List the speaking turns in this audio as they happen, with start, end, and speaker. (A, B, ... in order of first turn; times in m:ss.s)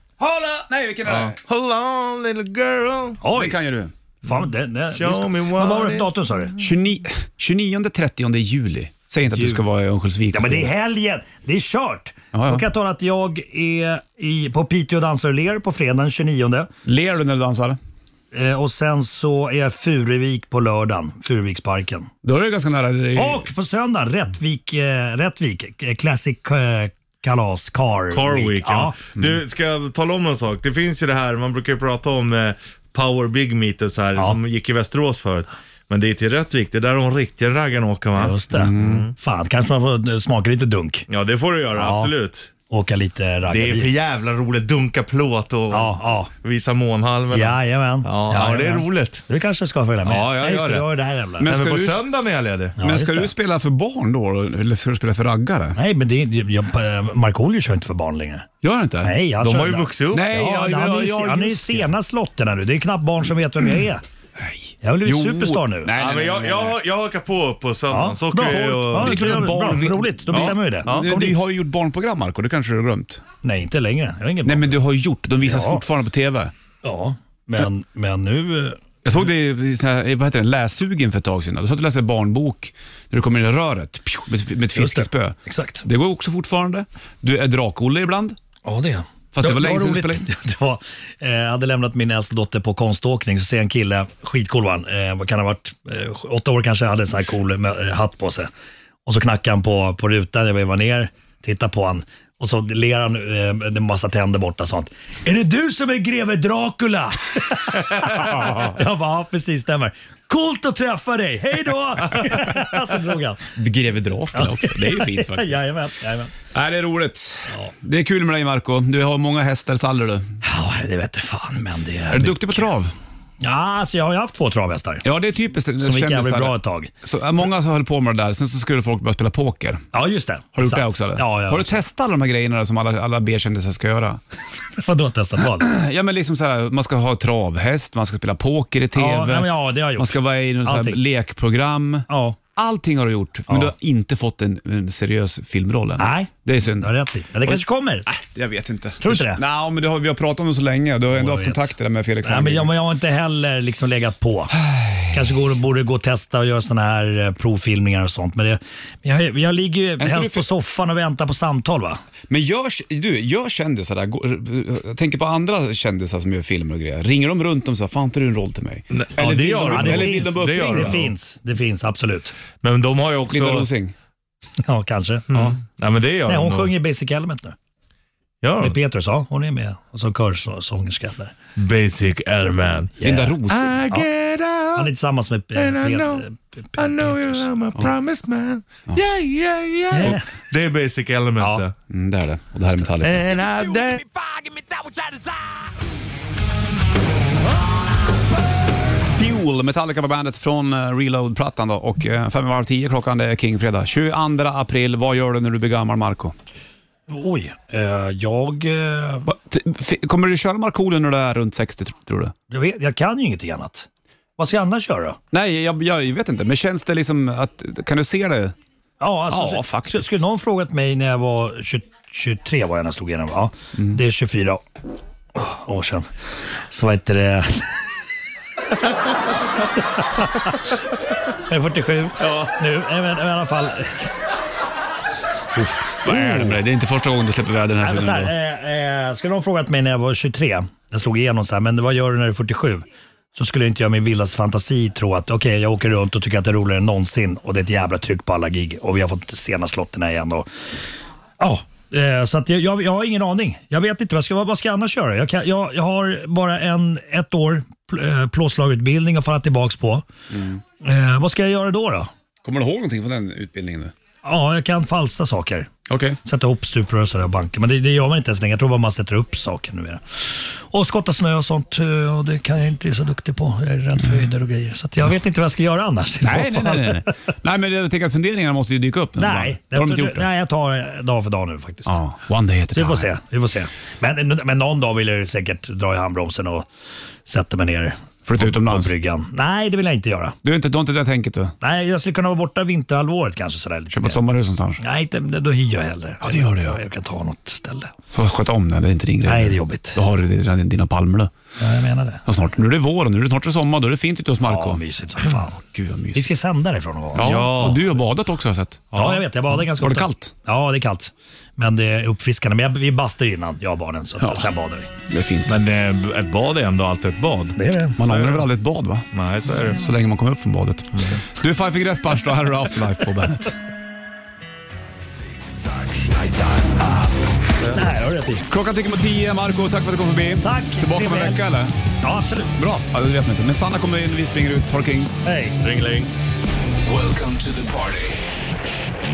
0:00.2-0:01.4 A
0:01.0-0:03.2 B
0:03.2-0:03.6 C
0:03.3-0:03.9 A
0:04.2-0:06.5 C
0:04.9-0:06.5 B
0:06.6-0:10.7 A
0:09.3-0:09.6 C
0:10.3-0:16.7 C
0:12.3-0:12.7 A
0:16.9-0:17.8 A
0:18.3-0:22.1 C
0:22.2-0:23.5 A
0:23.2-0:29.0 C
0:28.1-0:39.2 B
0:38.1-0:41.1 C
0:38.5-0:39.1 A
0:41.1-0:42.5 B
0:41.8-0:42.1 C
0:42.7-0:43.9 C
0:43.5-0:49.3 B
0:45.7-0:46.3 C
0:47.3-0:51.5 C
0:50.0-0:50.9 B
0:51.4-0:52.8 B
0:51.4-0:52.0 A
0:52.8-0:53.3 C
0:52.8-0:55.8 A
0:55.8-0:58.5 C
0:58.6-0:59.2 A
0:59.0-1:04.0 C
0:59.4-1:00.3 B
1:00.1-1:01.9 A
1:04.4-1:06.8 A
1:04.8-1:05.9 C
1:06.0-1:11.3 B
1:07.9-1:11.4 C
1:08.4-1:13.2 A
1:13.4-1:14.8 C
1:14.4-1:16.5 A
1:15.4-1:15.8 C
1:16.8-1:18.8 C
1:19.0-1:28.4 A
1:24.8-1:25.8 C
1:28.6-1:38.5 C
1:29.3-1:30.2 A
1:39.1-1:53.4 C
1:48.2-1:48.7 A
1:53.6-1:55.6 A
1:54.3-1:56.3 C
1:56.5-2:00.3 A
2:00.4-2:02.6 C
2:02.1-2:02.9 A
2:03.4-2:05.0 C
2:05.0-2:09.9 A
2:05.8-2:06.9 C
2:09.9-2:11.8 C
2:10.6-2:14.2 A
2:14.8-2:15.7 C
2:15.6-2:32.7 A
2:19.0-2:21.0 C
2:22.1-2:22.4 C
2:23.5-2:23.7 C
2:26.0-2:28.1 C
2:29.0-2:29.4 C
2:31.1-2:34.5 C
2:34.5-2:35.3 A
2:35.1-2:42.0 C
2:40.0-2:40.5 A
2:42.3-2:51.0 A
2:48.9-2:51.1 B
2:49.5-2:52.4 C
2:52.6-2:53.7 B
2:53.3-2:53.9 A
2:54.6-2:55.3 C
2:55.3-2:56.7 B
2:56.3-2:57.6 C
2:58.4-2:58.8 B
2:58.6-3:01.4 C
3:01.6-3:04.9 B
3:03.0-3:03.4 C
3:03.0-3:04.1 A
3:04.8-3:07.4 C
3:05.6-3:06.2 B
3:06.8-3:11.7 B
3:09.9-3:10.3 C
3:11.9-3:13.3 A
3:13.0-3:14.3 B
3:19.1-3:26.4 A
3:27.1-3:29.3 C
3:29.3-3:32.3 A
3:32.5-3:33.9 C
3:34.4-3:35.2 C
3:35.3-3:38.6 A
3:39.0-3:44.6 C
3:39.3-3:40.2 A
3:45.4-3:47.8 C
3:50.0-3:50.7 C
3:51.5-3:54.1 C
3:52.2-3:52.6 B
3:55.6-3:56.6 C
3:56.0-3:58.3 A
3:57.8-4:10.5 C
4:11.4-4:20.1 C
4:20.3-4:20.6 A
4:20.8-4:22.1 C
4:22.4-4:23.9 A
4:24.2-4:25.7 C
4:25.9-4:26.2 A
4:26.2-4:37.1 C
4:36.2-4:40.3 A
4:39.2-4:42.0 C
4:41.9-4:43.1 A
4:42.7-4:46.7 C
4:47.3-4:50.4 C
4:48.3-4:48.9 A
4:50.4-4:51.6 A
4:51.6-4:54.2 C
4:53.9-4:54.8 A
4:54.8-4:57.9 C
4:56.2-4:56.8 A
4:58.1-5:01.3 A
4:59.2-5:00.0 C
5:01.6-5:02.2 C
5:02.3-5:06.3 A
5:04.4-5:05.6 C
5:06.1-5:07.4 C
5:07.1-5:09.1 A
5:07.2-5:07.9 B
5:08.9-5:09.2 B
5:08.9-5:14.9 C
5:09.7-5:10.3 A
5:14.2-5:14.5 A
5:15.1-5:15.6 A
5:15.5-5:18.4 B
5:17.6-5:18.0 C
5:18.0-5:23.6 A
5:19.1-5:19.9 B
5:20.9-5:21.2 B
5:25.6-5:27.3 D
5:27.7-5:28.4 C
5:28.5-5:31.7 A
5:30.4-5:31.4 C
5:32.0-5:32.5 C
5:32.6-5:35.1 A
5:35.2-5:35.6 C
5:35.5-5:36.1 B
5:36.8-5:38.2 D